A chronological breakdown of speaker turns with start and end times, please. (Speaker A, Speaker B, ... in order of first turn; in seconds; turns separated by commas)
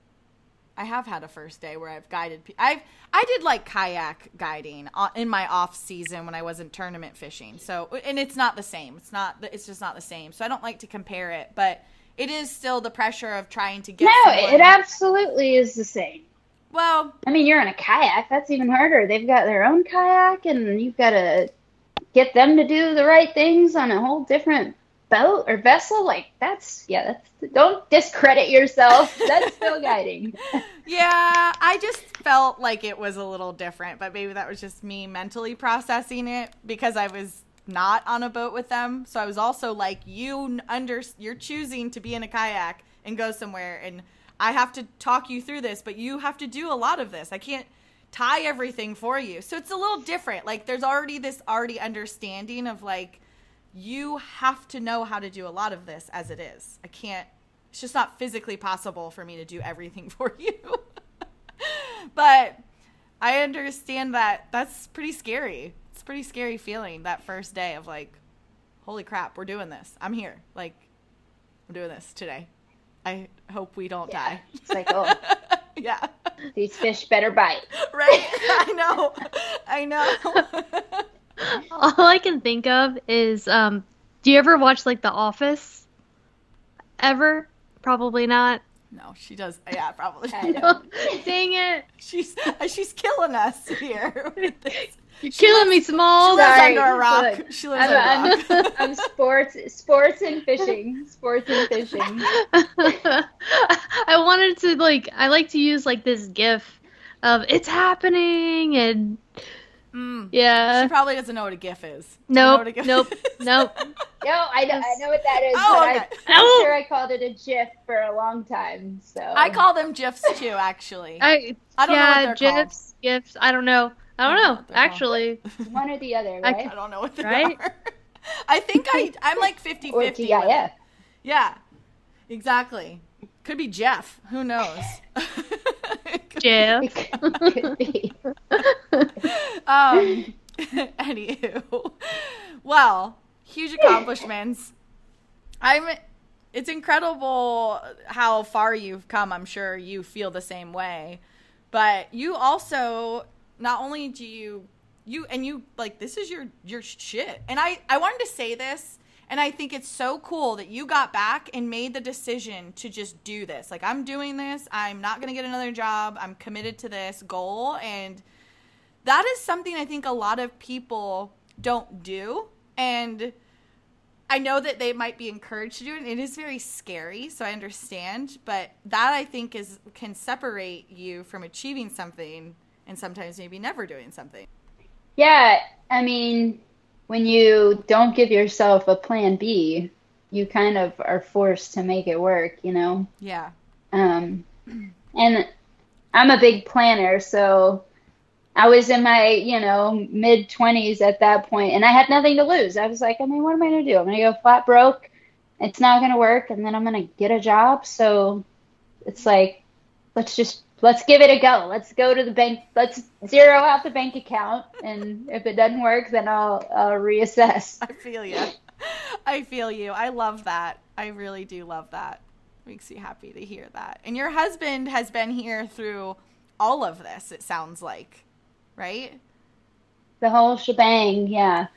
Speaker A: 0.8-14.8, Speaker B: 14.0-16.2, Speaker A: 16.7-17.2, Speaker B: 17.2-21.5, Speaker B: 22.1-30.6, Speaker A: 29.1-29.7, Speaker A: 30.8-53.2, Speaker A: 53.7-60.9, Speaker A: 61.6-62.6, Speaker A: 63.2-68.2, Speaker A: 68.8-70.8, Speaker A: 71.7-72.5, Speaker A: 73.0-76.1, Speaker B: 74.1-75.2, Speaker B: 76.5-77.6, Speaker A: 77.9-81.1, Speaker C: 81.4-85.8, Speaker C: 87.0-88.6, Speaker A: 88.9-90.7, Speaker B: 90.3-91.3, Speaker C: 90.5-91.9, Speaker A: 92.0-98.8, Speaker C: 94.4-96.8, Speaker B: 96.2-102.3, Speaker C: 98.3-98.7, Speaker C: 102.3-109.2, Speaker A: 109.9-113.6, Speaker C: 110.3-110.9, Speaker C: 112.3-113.9, Speaker B: 114.2-119.6, Speaker C: 114.7-115.0, Speaker A: 115.5-116.3, Speaker C: 116.3-116.7, Speaker A: 119.3-121.2, Speaker C: 121.2-125.4, Speaker A: 121.8-122.7, Speaker A: 124.3-125.0, Speaker B: 125.6-126.7, Speaker A: 126.6-130.6, Speaker C: 127.2-127.6, Speaker B: 129.9-130.7, Speaker A: 131.2-131.6, Speaker A: 132.3-136.7, Speaker C: 136.4-137.8, Speaker B: 136.8-138.2, Speaker C: 138.5-139.1, Speaker A: 139.2-144.7, Speaker B: 139.9-140.3, Speaker A: 145.6-146.0, Speaker A: 146.5-168.2, Speaker A: 169.0-173.4, Speaker A: 174.3-184.5, Speaker B: 185.2-193.1, Speaker A: 193.2-193.5, Speaker B: 193.9-194.4, Speaker B: 195.2-195.5, Speaker B: 196.1-197.8, Speaker B: 198.6-205.1, Speaker B: 205.6-208.4, Speaker B: 209.0-209.6, Speaker B: 210.2-217.8, Speaker A: 217.8-228.2, Speaker A: 228.8-229.2, Speaker B: 230.2-231.7